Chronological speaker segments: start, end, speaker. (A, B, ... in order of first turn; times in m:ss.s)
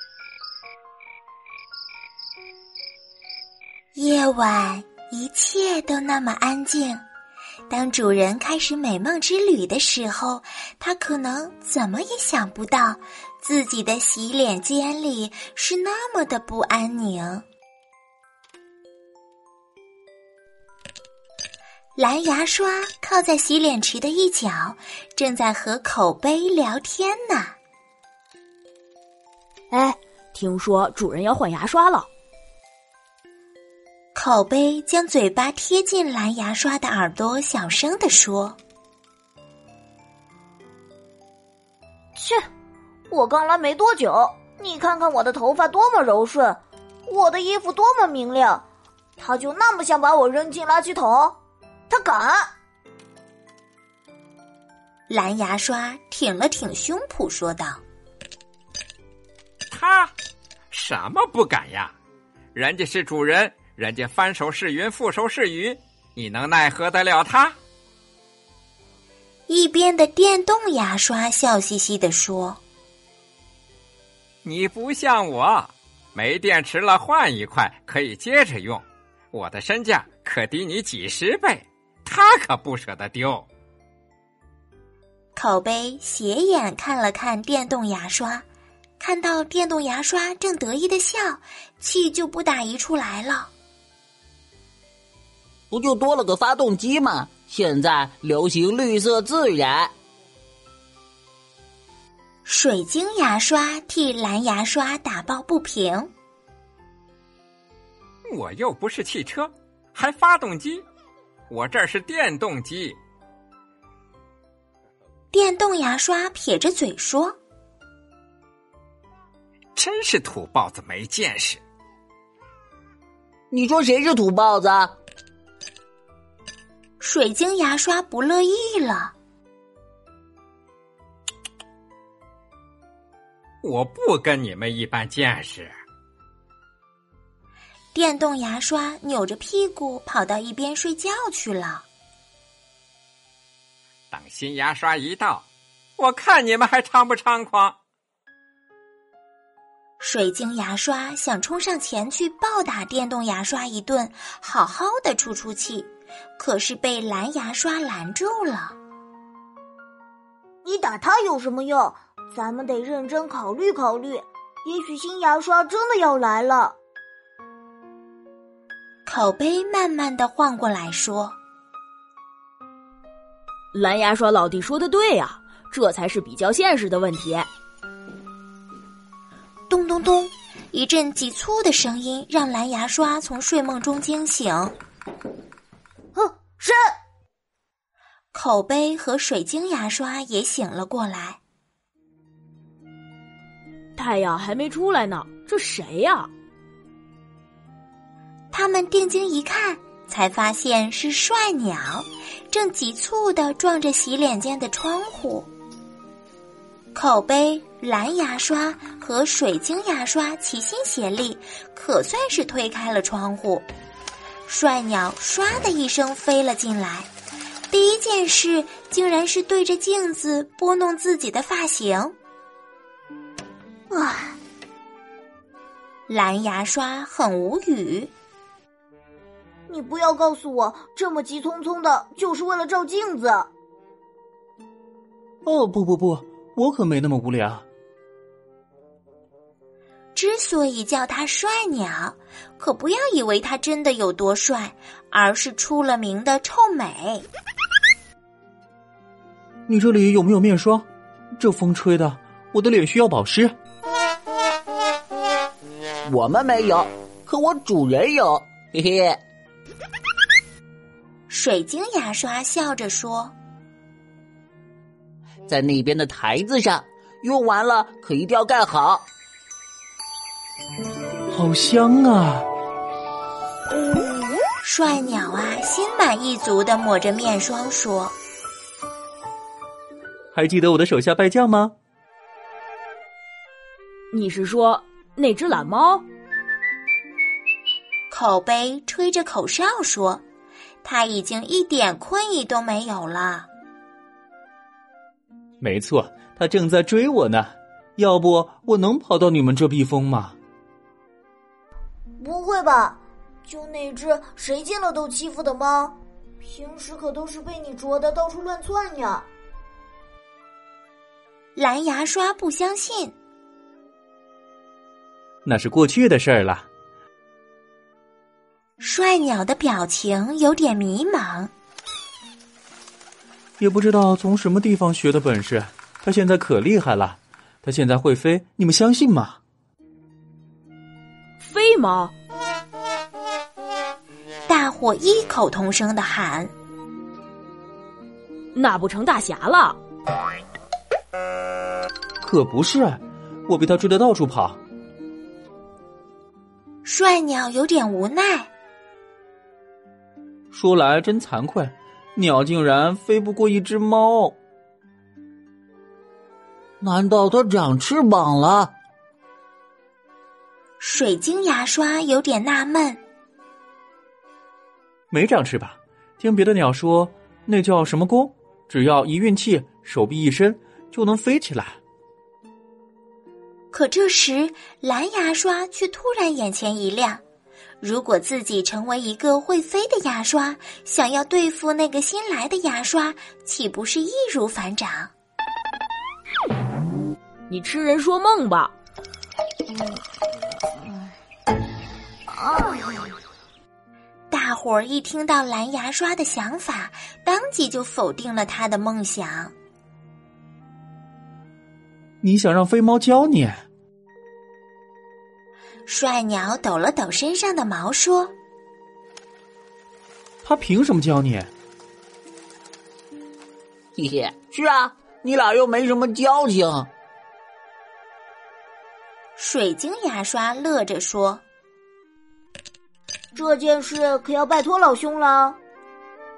0:03.9-0:07.0 A
0:07.7-0:17.4 A
0:22.0-0:27.6 A
0:29.7-0:32.1 B
0:34.1-0:38.6 A
0:42.2-0:42.4 C
0:43.1-0:48.6 C
0:49.2-0:51.4 C
0:51.9-0:52.5 C
0:55.1-0:57.8 A
0:59.7-1:00.1 D
1:00.7-1:01.9 D
1:02.5-1:07.6 D
1:09.5-1:12.6 A
1:14.4-1:23.5 D
1:25.4-1:28.4 A
1:29.0-1:33.5 A
1:35.7-1:39.9 E
1:42.4-1:46.1 A
1:48.3-1:50.8 D
1:51.5-1:53.0 D
1:55.3-1:57.4 A
1:59.8-2:01.6 D
2:03.5-2:04.9 E
2:07.0-2:09.1 A
2:13.6-2:15.7 D
2:17.9-2:21.8 A
2:24.1-2:25.5 D
2:26.0-2:27.8 D
2:30.0-2:38.8 A
2:40.6-2:46.8 C
2:49.0-2:51.4 A
2:53.7-2:57.5 B
2:59.7-3:04.7 A
3:06.1-3:06.8 C
3:08.3-3:11.4 A
3:14.0-3:16.3 B
3:18.5-3:25.5 A
3:26.9-3:33.7 A
3:34.5-3:37.1 A
3:37.7-3:42.1 A
3:43.9-3:44.4 C
3:46.1-3:48.1 A
3:49.7-3:53.5 C
3:55.4-3:57.6 F
4:00.1-4:07.2 A
4:09.7-4:10.8 F
4:11.4-4:13.5 F
4:16.0-4:19.2 E
4:21.3-4:23.3 A
4:25.5-4:29.0 E
4:31.3-4:32.4 F
4:34.6-4:38.2 A
4:40.3-4:41.7 F
4:44.1-4:46.0 B
4:48.1-4:50.2 A
4:50.8-4:53.5 A
4:55.6-5:00.4 F
5:02.2-5:09.3 C
5:11.6-5:13.1 A
5:15.4-5:16.6 F
5:18.8-5:21.5 A
5:23.6-5:29.4 F
5:31.4-5:32.1 B
5:34.5-5:36.5 A
5:38.5-5:39.8 B
5:42.2-5:44.6 F
5:46.8-5:48.5 A
5:50.5-5:54.4 F
5:56.8-5:58.7 E
6:00.8-6:03.0 A
6:05.1-6:11.8 F
6:13.7-6:17.2 A
6:17.8-6:25.1 A
6:27.5-6:28.7 B
6:32.3-6:33.0 C
6:34.3-6:39.5 A
6:42.2-6:43.6 F
6:45.9-6:48.3 A
6:50.4-6:51.5 F
6:54.0-6:56.9 E
6:59.4-7:01.4 A
7:03.3-7:05.6 C